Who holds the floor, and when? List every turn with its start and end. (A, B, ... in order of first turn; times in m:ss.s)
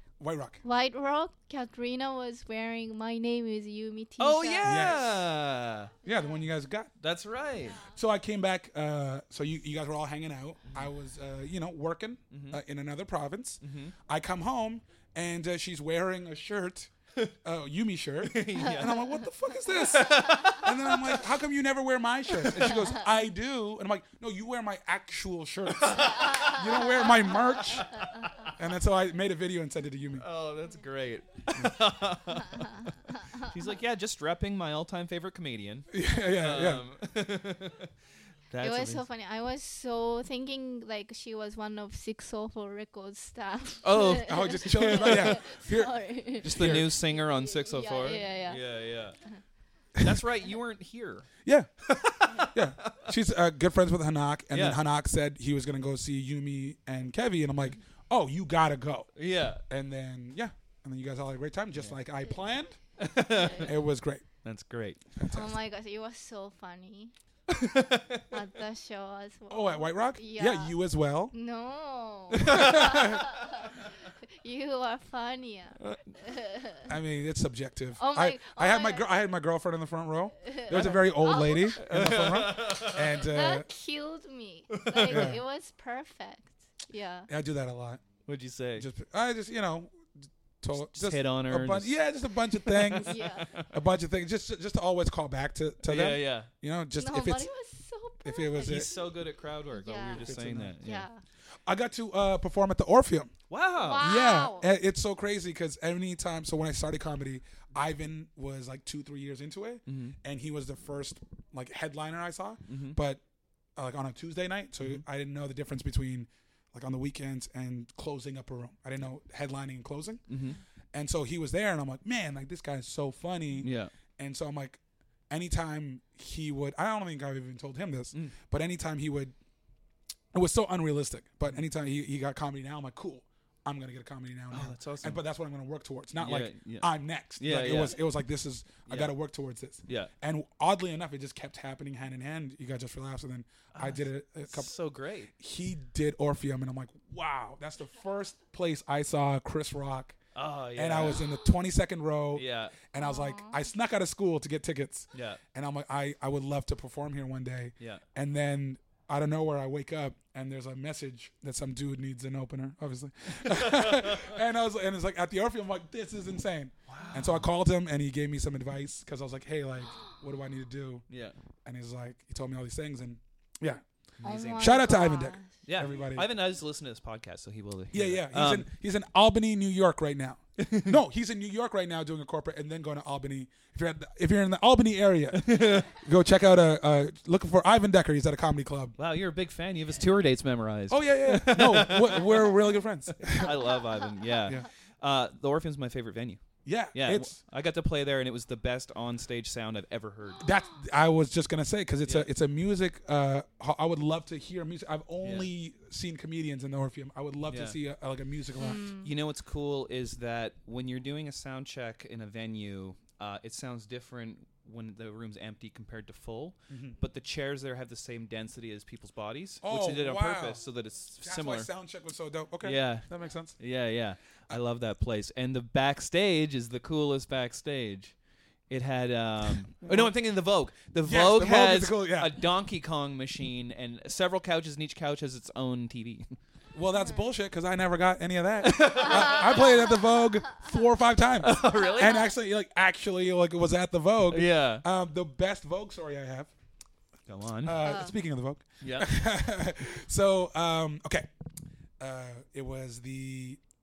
0:00.2-0:00.6 A
0:00.6-0:05.0 B
0:04.2-0:05.9 C
0:04.6-0:05.1 A
0:06.0-0:06.9 A
0:06.1-0:06.4 B
0:07.0-0:07.8 C
0:07.6-0:08.0 B
0:07.8-0:16.9 A
0:12.3-0:12.6 C
0:13.6-0:14.0 C
0:17.4-0:30.3 A
0:18.2-0:21.3 C
0:22.4-0:23.0 C
0:25.8-0:28.5 C
0:26.3-0:26.6 B
0:30.2-0:37.9 C
0:35.9-0:36.8 A
0:38.5-0:39.1 C
0:38.6-0:49.4 B
0:43.8-0:45.5 C
0:44.1-0:46.9 A
0:46.4-0:49.2 C
0:50.0-0:51.3 C
0:51.4-0:51.7 A
0:51.9-0:53.1 C
0:52.5-1:02.8 A
0:54.5-0:54.8 C
0:59.2-0:59.6 C
1:03.0-1:03.7 C
1:03.3-1:03.7 B
1:03.6-1:04.2 A
1:04.4-1:05.0 C
1:05.2-1:05.5 A
1:05.3-1:07.1 B
1:07.5-1:08.4 C
1:08.3-1:10.8 B
1:09.5-1:11.4 A
1:11.3-1:13.7 B
1:12.3-1:13.0 C
1:12.4-1:13.2 A
1:14.4-1:16.9 B
1:16.9-1:23.7 A
1:18.0-1:19.1 B
1:20.4-1:21.8 B
1:20.7-1:23.2 C
1:23.2-1:27.3 B
1:24.7-1:25.4 C
1:25.0-1:25.4 A
1:27.3-1:28.0 A
1:28.3-1:28.9 C
1:28.8-1:37.5 A
1:30.7-1:33.7 C
1:33.0-1:33.5 B
1:35.8-1:36.5 C
1:37.0-1:39.1 B
1:38.2-1:38.9 A
1:38.6-1:41.1 C
1:39.7-1:41.2 B
1:40.2-1:40.7 A
1:41.7-1:43.3 A
1:43.5-1:44.1 C
1:43.8-1:44.7 B
1:44.0-1:53.2 A
1:49.9-1:50.2 C
1:52.7-1:53.0 C
1:53.8-2:00.2 A
2:00.3-2:00.6 C
2:00.9-2:09.3 A
2:03.6-2:03.9 C
2:10.3-2:24.8 A
2:14.5-2:15.2 C
2:16.2-2:18.0 C
2:18.9-2:19.1 C
2:19.9-2:20.1 C
2:23.7-2:25.3 C
2:25.3-2:30.2 A
2:30.4-2:31.3 C
2:30.8-2:51.0 A
2:32.4-2:32.8 C
2:33.0-2:33.6 B
2:35.1-2:35.4 C
2:43.4-2:44.3 C
2:46.9-2:47.5 C
2:51.1-2:51.4 C
2:51.6-2:53.8 A
2:54.2-2:55.0 C
2:54.2-2:55.6 B
2:54.6-2:56.3 A
2:55.6-2:58.7 C
2:57.9-3:09.0 A
3:00.6-3:01.0 C
3:05.3-3:05.9 C
3:09.0-3:20.5 C
3:10.9-3:13.6 A
3:16.6-3:17.4 A
3:20.4-3:28.9 A
3:22.0-3:22.3 C
3:25.2-3:25.5 C
3:27.5-3:27.8 C
3:28.6-3:29.1 B
3:29.0-3:41.7 C
3:36.7-3:37.0 A
3:39.6-3:40.6 A
3:41.2-3:43.6 A
3:42.6-3:48.2 C
3:48.7-3:56.4 C
3:49.8-3:50.2 A
3:51.0-3:52.4 A
3:56.7-4:06.5 A
3:58.6-3:59.9 C
4:01.4-4:02.3 C
4:04.3-4:04.8 C
4:07.3-4:08.0 C
4:07.6-4:11.3 A
4:07.8-4:08.2 B
4:08.8-4:09.1 C
4:12.0-4:13.6 A